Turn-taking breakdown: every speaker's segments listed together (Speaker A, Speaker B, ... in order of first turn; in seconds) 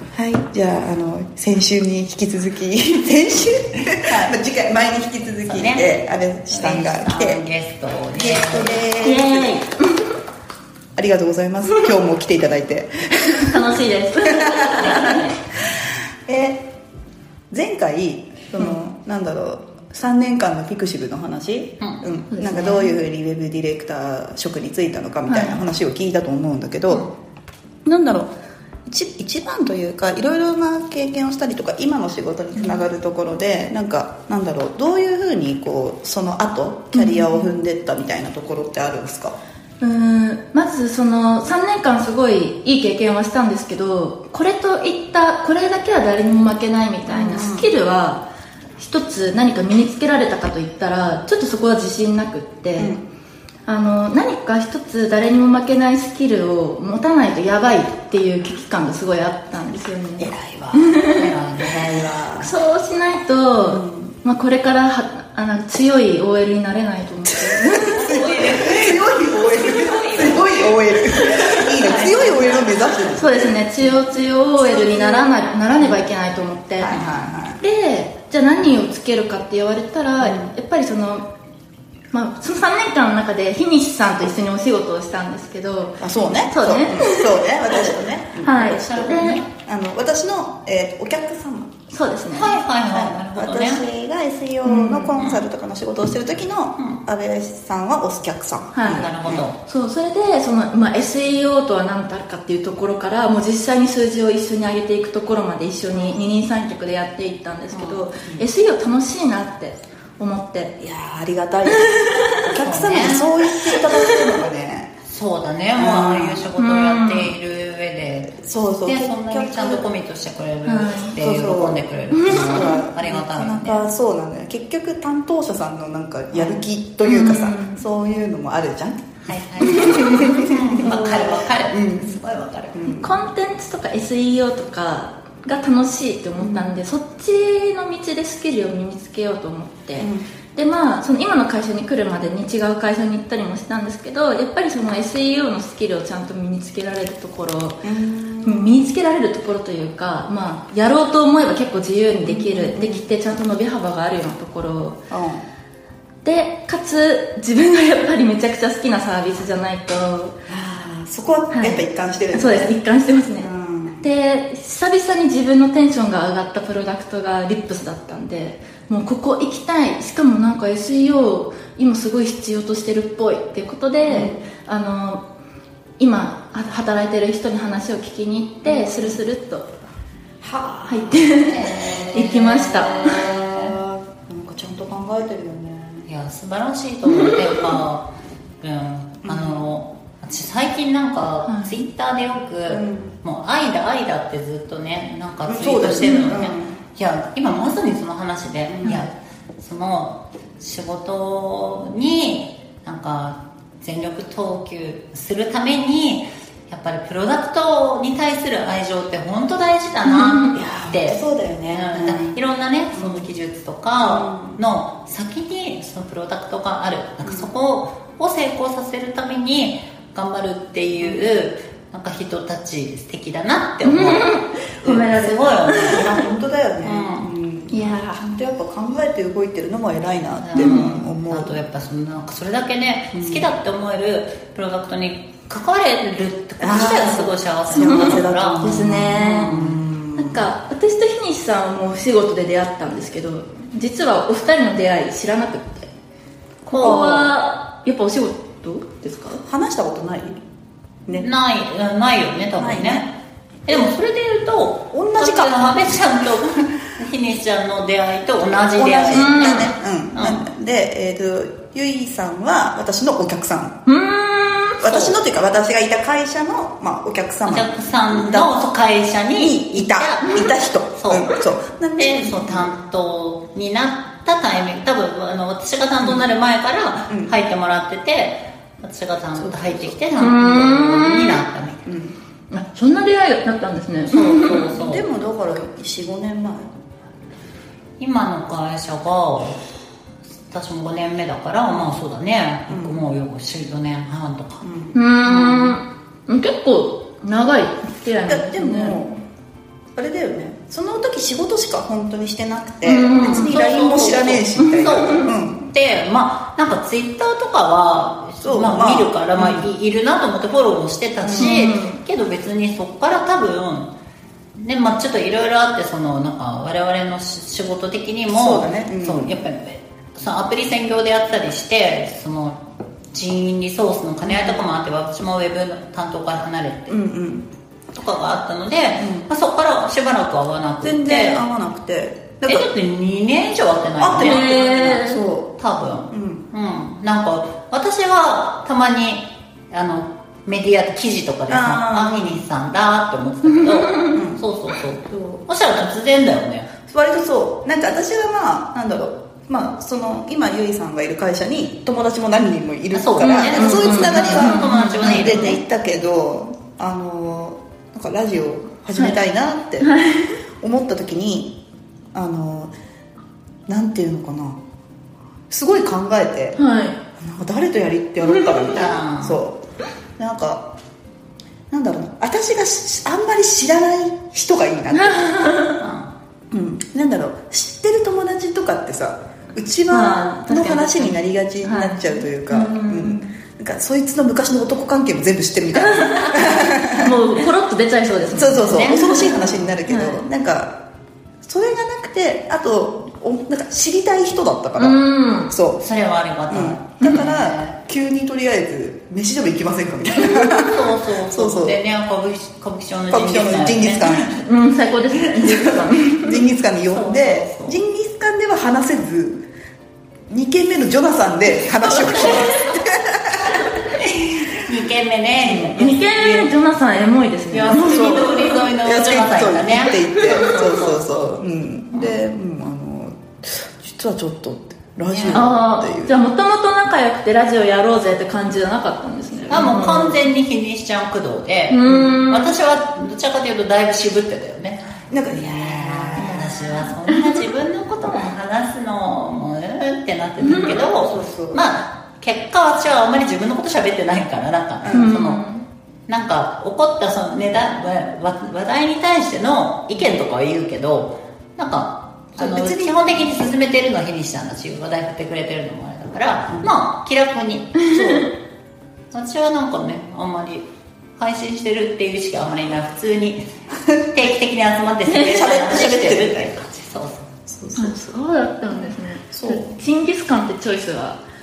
Speaker A: 0.1-7.4, 8.1-9.6, 10.9-13.7, 14.2-15.2, 16.3-16.7, 17.5-27.1, 27.9-28.3, 28.9-39.4, 47.1-47.7, 52.8-53.0, 61.6-62.5, 63.7-64.2, 67.3-73.4, 74.6-75.3, 76.8-77.6, 80.2-80.5, 86.0-91.7, 92.9-99.5, 105.9-106.2, 110.8-114.9, 115.8-116.5, 118.4-119.9, 121.2-132.2, 132.7-133.2, 136.4-136.8, 140.0-140.3, 147.8-148.9, 152.2-153.1, 155.1-155.4, 160.5-162.8, 163.4-164.1, 174.1-174.4, 178.7-179.2, 180.4-182.0, 183.1-186.1, 189.2-189.7, 192.7-193.2, 195.5-196.8, 198.8-199.1, 210.1-212.4, 212.9-213.3, 214.0-214.6, 217.2-217.5, 221.0-221.3, 225.6-231.6, 233.1-233.5, 236.6-240.5, 249.4-250.4, 252.6-253.1, 254.9-256.0, 258.8-263.8, 264.8-268.5, 269.4-272.7, 277.1-277.4, 279.4-280.0, 281.9-282.2, 284.4-286.7, 292.7-293.0, 294.6-295.0, 298.3-299.2, 299.9-305.7, 308.4-309.7, 311.2-311.5, 318.3-319.4, 324.2-324.6, 326.9-327.5, 329.0-329.3, 330.8-332.7, 334.0-335.6, 336.1-336.5, 341.5-342.4, 344.1-344.4, 345.1-345.4, 346.9-359.9, 360.6-361.6, 362.1-362.7, 363.7-364.6, 365.5-366.6, 367.2-369.6, 370.2-370.7, 371.7-375.5, 376.5-387.2, 388.3-390.8, 391.4-395.9, 396.5-401.8, 403.1-404.4, 405.3-409.4, 410.3-413.7, 415.4-415.8, 417.8-426.1, 431.9-432.2, 435.1-436.9, 440.7-441.6, 444.8-445.1, 452.4-453.4, 456.5-456.7, 457.9-458.3, 465.2-466.5, 467.5-468.0, 468.7-469.8
Speaker B: 4.0-4.4, 5.5-5.9, 6.5-8.8, 60.2-62.1, 67.9-73.2, 88.5-89.5, 92.3-93.8, 95.1-95.4, 98.8-99.6, 107.7-108.1, 112.6-113.3, 115.1-123.8, 126.3-126.6, 129.2-132.8, 181.4-183.8, 186.1-188.1, 188.6-224.3, 224.8-226.2, 226.8-227.3, 230.4-238.7, 239.2-239.8, 246.7-247.3, 251.1-253.1, 253.7-260.4, 264.8-265.2, 267.4-271.3, 272.0-281.8, 284.1-285.1, 288.0-289.6, 290.5-294.6, 295.2-295.8, 303.2-313.9, 314.6-322.6, 323.1-326.9, 327.9-331.4, 332.4-346.7, 352.9-355.6, 368.2-369.4, 375.8-376.1, 388.6-389.7, 395.8-397.8, 400.1-404.4, 406.9-407.8, 411.9-412.5, 413.9-416.6, 417.5-421.2, 421.9-422.2, 425.1-425.4, 429.5-445.4, 446.1-457.8, 459.1-460.7, 461.2-463.4, 464.1-467.3
Speaker C: 9.0-9.9, 13.4-15.4, 22.3-22.9, 25.3-25.6, 36.9-37.5, 39.8-48.2, 48.8-53.0, 53.6-61.3, 62.4-68.2, 73.2-76.9, 77.6-81.2, 82.1-89.4, 91.9-92.6, 94.6-95.1, 98.7-110.7, 111.8-112.4, 113.8-114.2, 116.6-117.4, 120.6-121.2, 122.1-122.8, 127.0-127.8, 129.9-130.2, 132.9-147.8, 148.4-155.0, 156.2-160.4, 161.5-163.5, 164.0-175.2, 176.0-179.7, 180.9-183.3, 187.1-187.5, 191.4-191.7, 223.8-226.2, 227.7-228.2, 230.6-230.9, 237.8-239.5, 240.2-245.9, 246.7-249.4, 259.1-259.7, 263.9-264.8, 280.2-281.4, 282.5-284.7, 294.9-299.0, 302.8-303.5, 304.6-305.3, 311.4-312.0, 334.2-335.2, 343.4-344.2, 353.2-355.6, 358.9-359.2, 359.8-360.4, 366.6-367.0, 374.9-375.8, 379.9-383.3, 385.7-390.2, 394.8-395.5, 404.4-406.4, 415.8-418.6, 425.3-430.2, 431.7-432.6, 437.1-437.4, 440.4-440.8, 444.9-445.6, 457.8-458.3, 467.8-471.2